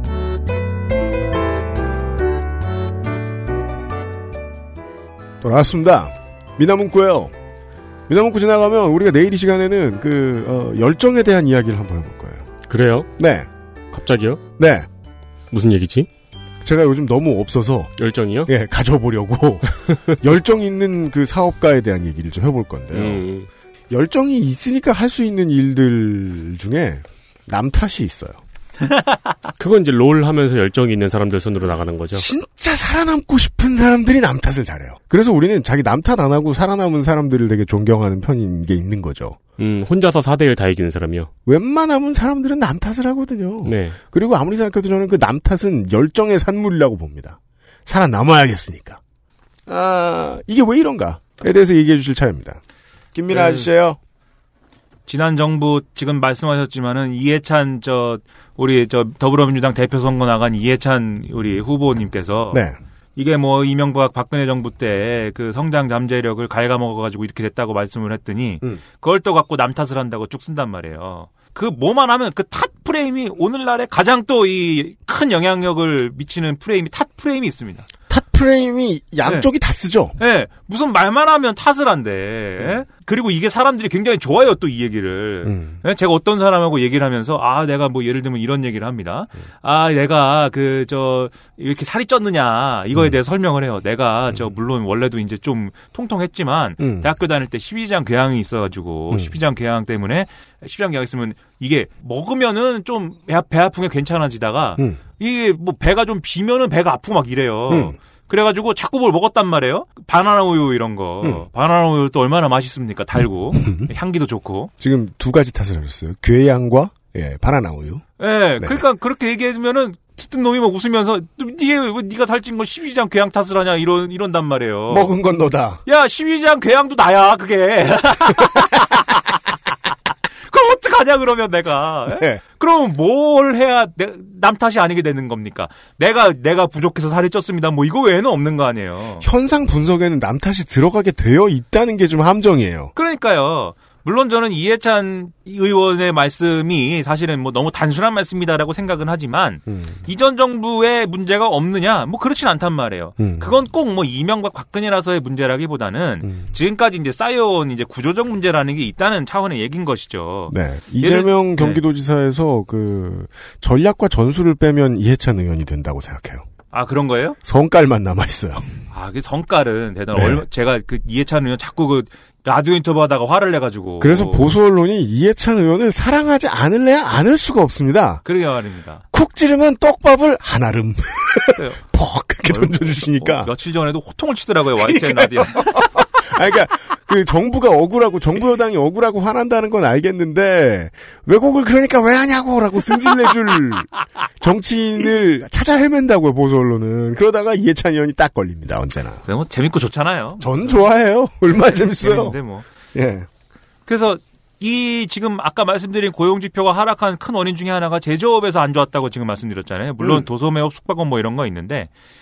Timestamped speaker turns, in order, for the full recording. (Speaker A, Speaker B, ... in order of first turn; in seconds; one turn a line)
Speaker A: 5.4-7.3
Speaker A: 8.1-12.5
Speaker B: 12.7-13.1
Speaker A: 13.2-13.5
Speaker B: 13.9-14.4
Speaker A: 14.6-14.9
Speaker B: 15.5-16.1
Speaker A: 16.6-17.9
Speaker B: 18.0-18.5
Speaker A: 18.4-23.2
Speaker B: 19.9-20.1
Speaker B: 22.9-23.5
Speaker A: 23.9-28.4
Speaker C: 28.8-29.2
Speaker B: 29.6-32.3
Speaker A: 32.1-39.4
Speaker B: 39.6-41.3
Speaker A: 41.5-49.0
Speaker B: 43.6-44.0
Speaker A: 49.7-52.6
Speaker A: 53.1-54.0
Speaker C: 53.3-53.7
Speaker C: 55.1-62.6
Speaker A: 62.5-62.8
Speaker C: 63.1-77.9
Speaker A: 78.1-80.1
Speaker C: 80.2-114.7
Speaker A: 85.4-85.8
Speaker A: 96.8-97.1
Speaker A: 107.7-108.0
Speaker A: 113.5-113.9
Speaker A: 114.8-118.0
Speaker C: 118.2-125.1
Speaker A: 124.9-125.8
Speaker C: 125.8-129.3
Speaker C: 130.4-139.2
Speaker A: 132.1-132.4
Speaker A: 139.2-142.9
Speaker C: 142.9-161.8
Speaker A: 149.7-150.0
Speaker A: 153.2-153.5
Speaker A: 160.5-166.4
Speaker C: 166.7-167.4
Speaker A: 167.4-168.8
Speaker C: 168.9-174.5
Speaker A: 170.1-170.4
Speaker A: 174.0-178.2
Speaker C: 178.2-179.0
Speaker A: 179.1-183.5
Speaker C: 181.5-181.8
Speaker C: 182.5-185.9
Speaker A: 184.8-199.2
Speaker C: 199.2-200.8
Speaker A: 200.4-202.4
Speaker C: 202.0-202.6
Speaker A: 202.9-203.3
Speaker C: 203.9-211.9